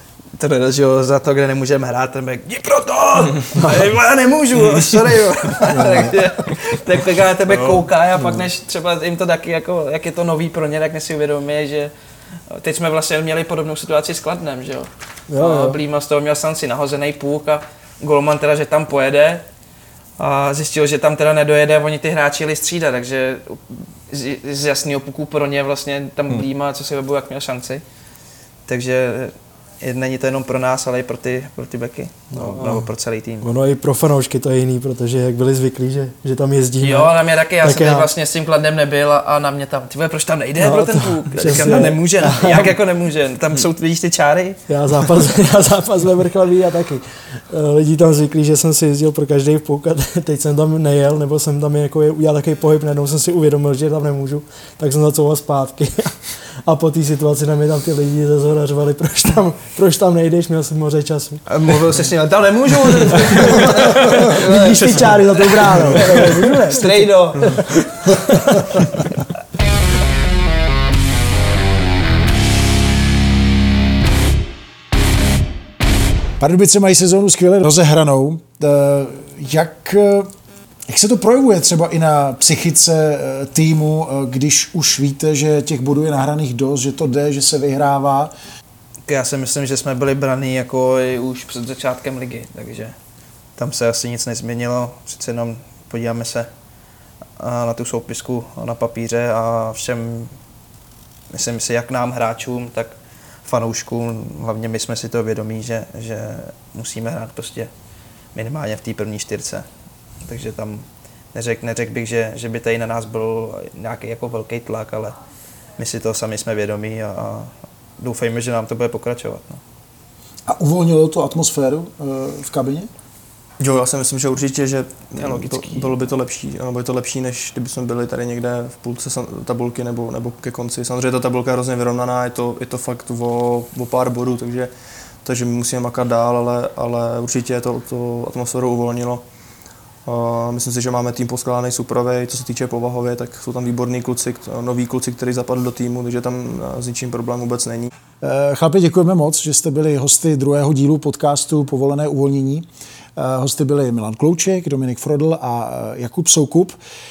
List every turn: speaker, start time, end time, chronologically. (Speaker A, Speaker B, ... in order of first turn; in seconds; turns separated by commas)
Speaker A: 0.4-11.9, Speaker B: 5.8-6.1, Speaker C: 7.5-7.8, Speaker B: 8.2-8.5, Speaker A: 12.5-19.4, Speaker B: 15.3-15.8, Speaker A: 20.2-27.8, Speaker A: 28.7-33.5, Speaker B: 32.3-32.9, Speaker B: 33.4-38.1, Speaker A: 36.8-44.6, Speaker B: 40.6-42.7, Speaker B: 44.7-61.5, Speaker A: 61.5-68.1, Speaker B: 64.3-68.9, Speaker D: 76.4-80.3, Speaker D: 80.9-88.3, Speaker A: 89.1-93.0, Speaker A: 93.6-96.5, Speaker A: 97.4-100.3, Speaker A: 101.3-102.9, Speaker A: 103.5-107.7, Speaker A: 108.3-109.7, Speaker A: 110.2-115.2, Speaker A: 115.8-119.6, Speaker D: 120.5-122.9, Speaker C: 123.6-134.7, Speaker A: 125.2-125.9, Speaker C: 135.2-139.2, Speaker C: 140.1-147.9, Speaker D: 148.2-156.8